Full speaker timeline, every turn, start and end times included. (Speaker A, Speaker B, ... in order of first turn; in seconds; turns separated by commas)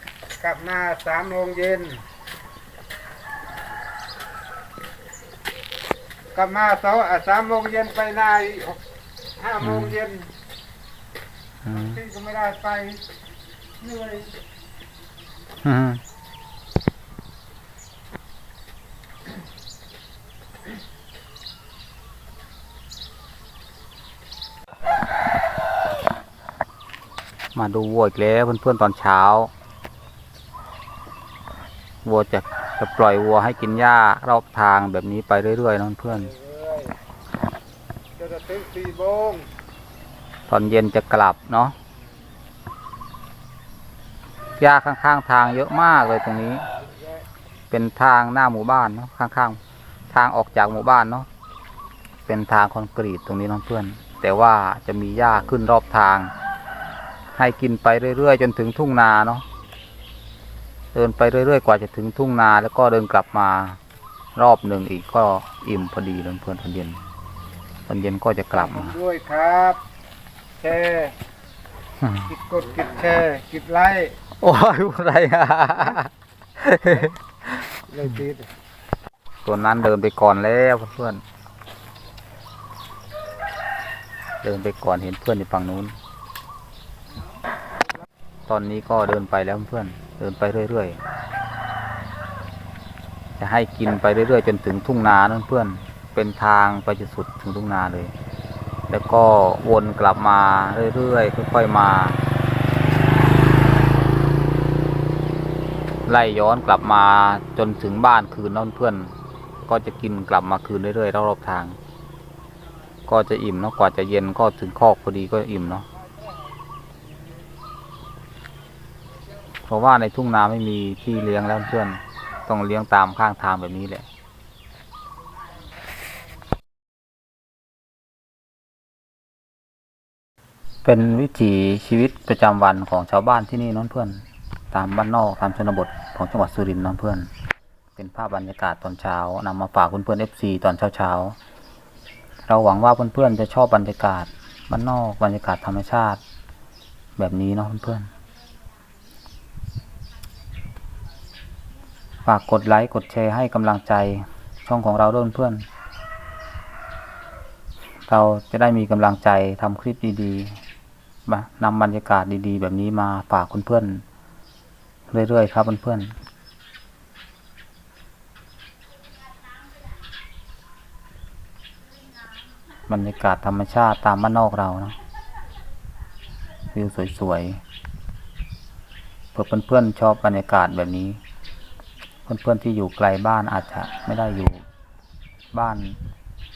Speaker A: 0.4-2.0, Speaker A: 6.3-8.8, Speaker A: 9.4-10.3, Speaker B: 9.6-10.0, Speaker B: 11.6-12.0, Speaker A: 11.7-13.0, Speaker A: 13.8-14.3, Speaker B: 15.6-16.0, Speaker B: 27.5-29.5, Speaker B: 32.0-36.3, Speaker A: 36.3-37.0, Speaker A: 38.2-39.5, Speaker B: 40.5-41.7, Speaker B: 44.6-46.6, Speaker B: 47.7-49.6, Speaker B: 50.1-51.3, Speaker B: 52.3-56.3, Speaker B: 57.3-59.4, Speaker B: 60.9-63.8, Speaker B: 64.3-67.0, Speaker B: 67.9-68.9, Speaker A: 68.5-69.8, Speaker A: 70.6-71.1, Speaker B: 72.0-72.3, Speaker A: 72.3-74.2, Speaker B: 74.4-77.1, Speaker A: 77.9-78.5, Speaker B: 79.4-81.2, Speaker B: 84.4-85.9, Speaker B: 88.5-91.0, Speaker B: 93.4-98.1, Speaker B: 98.9-102.2, Speaker B: 106.1-111.8, Speaker B: 113.1-115.8, Speaker B: 119.7-124.1, Speaker B: 130.8-137.3, Speaker B: 137.9-141.3, Speaker B: 142.4-146.2, Speaker B: 147.2-148.1, Speaker B: 152.2-155.7, Speaker B: 158.1-160.6, Speaker B: 161.2-164.0, Speaker B: 165.1-166.1, Speaker B: 172.9-174.9, Speaker B: 176.7-177.6, Speaker B: 179.3-181.2, Speaker B: 182.2-184.6, Speaker B: 185.5-186.0